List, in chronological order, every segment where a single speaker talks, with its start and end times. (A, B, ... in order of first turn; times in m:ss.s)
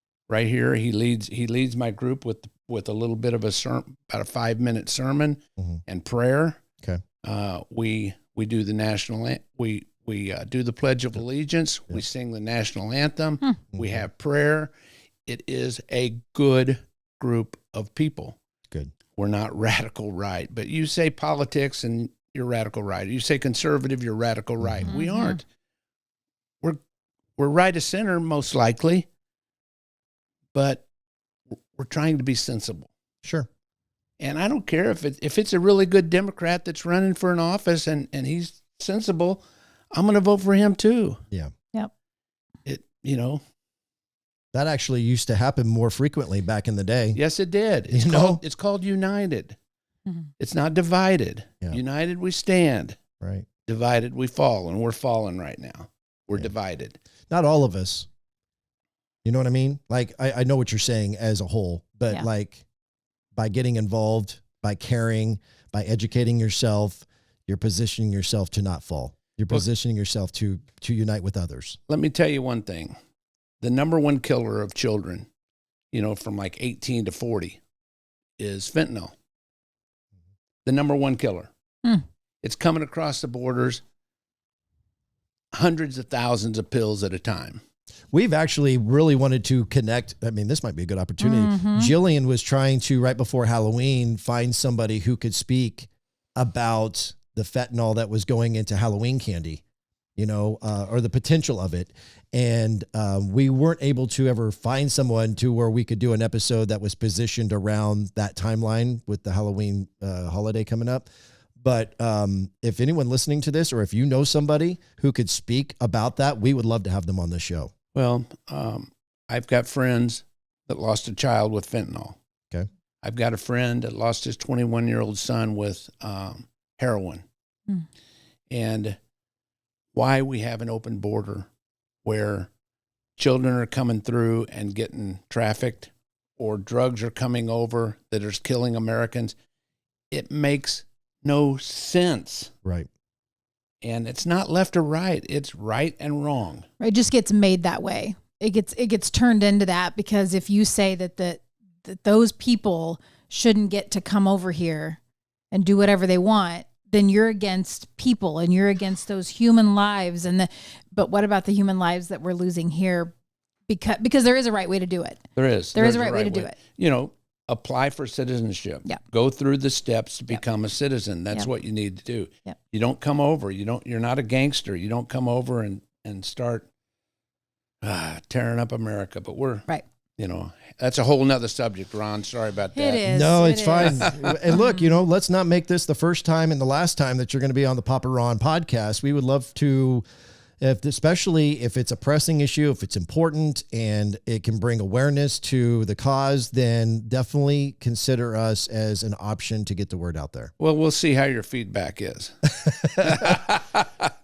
0:00.3-0:06.6 A
0:07.2-0:14.7 A
0:13.7-0:14.0 B
0:15.3-0:18.4 A
0:19.2-0:25.4 A
0:24.6-0:24.9 B
0:24.9-0:25.4 C
0:27.4-0:29.1 A
0:30.5-0:30.8 A
0:31.8-0:32.9 A
0:34.2-0:39.4 A
0:39.9-0:41.2 A
0:42.6-0:43.4 A
0:44.5-0:47.2 B
0:47.2-0:49.6 A
0:47.9-0:48.4 B
0:50.4-0:53.0 A
0:53.2-0:53.5 B
0:53.7-0:57.0 A
0:57.3-0:58.1 B
0:59.2-1:02.6 B
1:03.4-1:11.8 B
1:11.9-1:13.0 A
1:13.6-1:15.3 A
1:15.9-1:17.6 A
1:18.4-1:19.1 A
1:20.6-1:21.5 A
1:22.4-1:23.8 A
1:25.5-1:27.6 A
1:28.1-1:39.6 B
1:31.2-1:31.9 C
1:40.2-1:51.1 B
1:51.6-1:57.7 B
1:57.9-2:02.2 A
2:03.0-2:07.2 A
2:08.5-2:09.0 A
2:09.9-2:11.5 A
2:12.0-2:12.5 A
2:13.2-2:19.4 A
2:20.1-2:22.5 A
2:23.8-2:26.7 A
2:26.8-2:35.0 C
2:35.5-2:43.1 C
2:43.7-2:45.2 C
2:45.4-2:56.7 A
2:45.7-2:46.6 C
2:57.8-3:03.0 A
3:02.8-3:04.9 C
3:03.1-3:10.0 B
3:10.6-3:20.5 B
3:20.6-3:23.9 A
3:22.7-3:23.4 B